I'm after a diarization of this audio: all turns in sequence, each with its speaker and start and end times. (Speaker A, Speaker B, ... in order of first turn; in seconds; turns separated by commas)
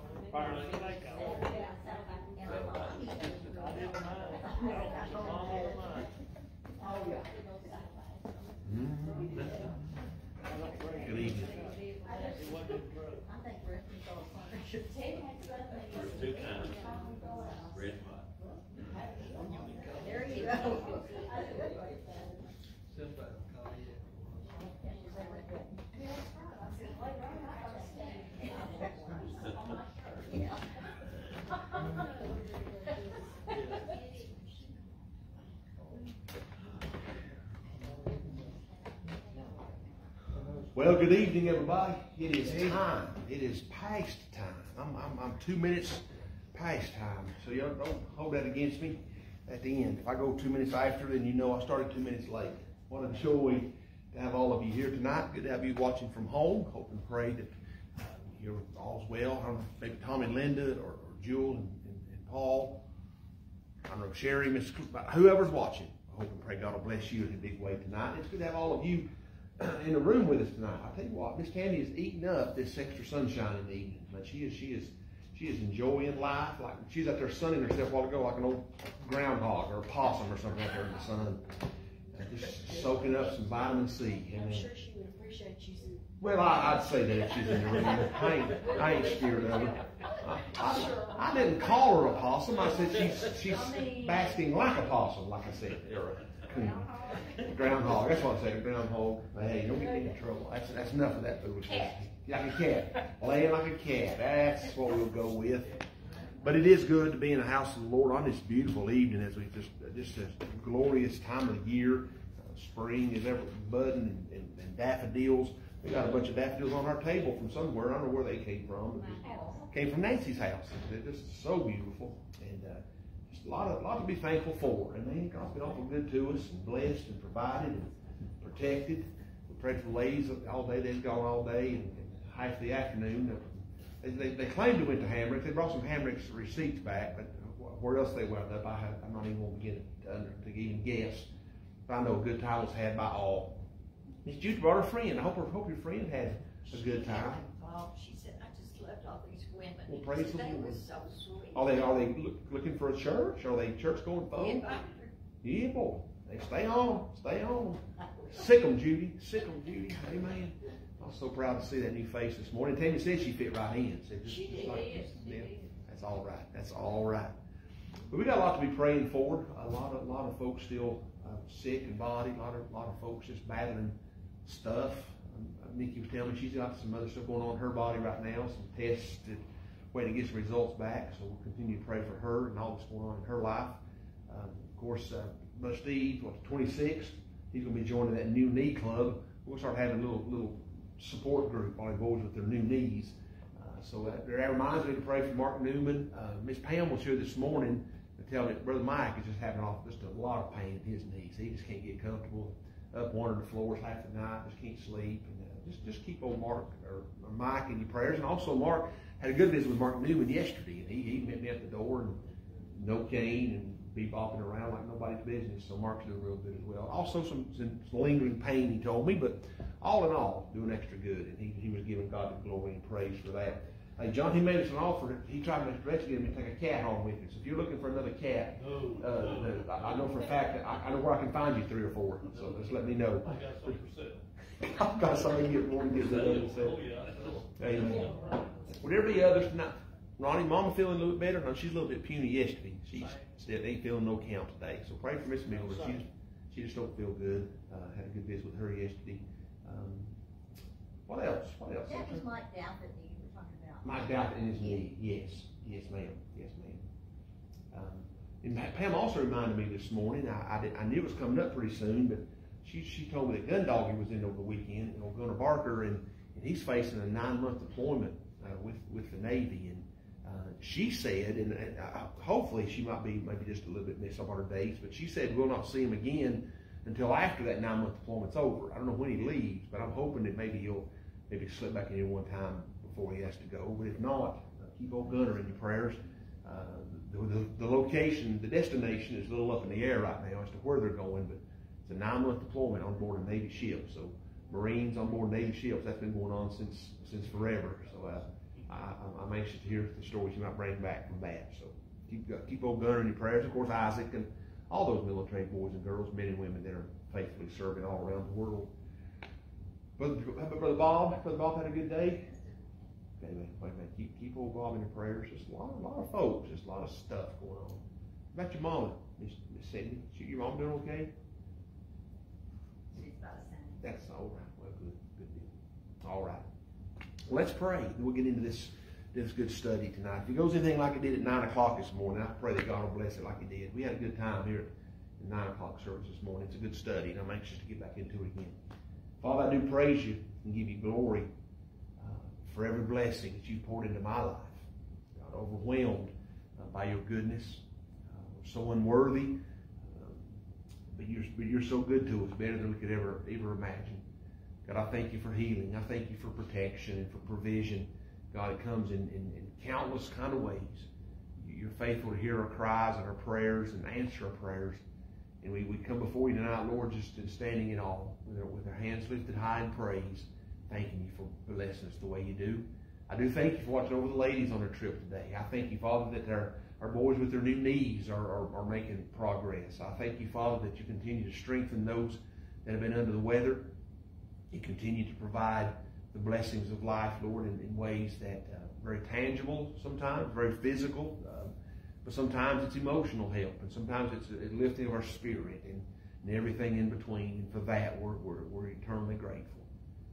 Speaker A: 0.3-1.1, Speaker B: 1.1-6.0, Speaker B: 6.8-8.4, Speaker C: 8.6-9.5, Speaker C: 10.9-11.8, Speaker B: 11.8-18.2, Speaker B: 18.7-22.4, Speaker B: 24.4-30.7, Speaker B: 31.8-32.2, Speaker B: 33.5-34.7, Speaker C: 40.7-57.5, Speaker C: 58.1-62.8, Speaker C: 63.9-81.5, Speaker C: 82.1-84.7, Speaker B: 84.3-86.0, Speaker C: 86.2-105.8, Speaker C: 106.4-141.3, Speaker B: 118.9-119.7, Speaker C: 141.8-143.6, Speaker C: 144.2-147.4, Speaker B: 146.7-151.6, Speaker C: 149.9-150.8, Speaker C: 151.5-154.8, Speaker B: 154.3-155.1, Speaker C: 155.4-167.3, Speaker B: 164.2-165.7, Speaker C: 168.1-179.4, Speaker C: 179.9-233.3, Speaker A: 228.6-230.1, Speaker A: 233.2-234.2, Speaker C: 234.6-236.8, Speaker A: 236.5-238.2, Speaker C: 237.6-250.2, Speaker C: 251.1-252.2, Speaker B: 251.9-254.8, Speaker C: 253.8-256.9, Speaker C: 257.7-308.7, Speaker C: 310.0-312.3, Speaker C: 313.2-321.1, Speaker B: 322.9-323.8, Speaker C: 323.8-326.5, Speaker C: 327.3-338.6, Speaker C: 339.2-341.3, Speaker C: 342.0-344.6, Speaker C: 345.2-350.3, Speaker C: 350.9-354.0, Speaker C: 354.6-364.8, Speaker C: 365.4-383.7, Speaker C: 384.5-391.5, Speaker C: 392.0-399.7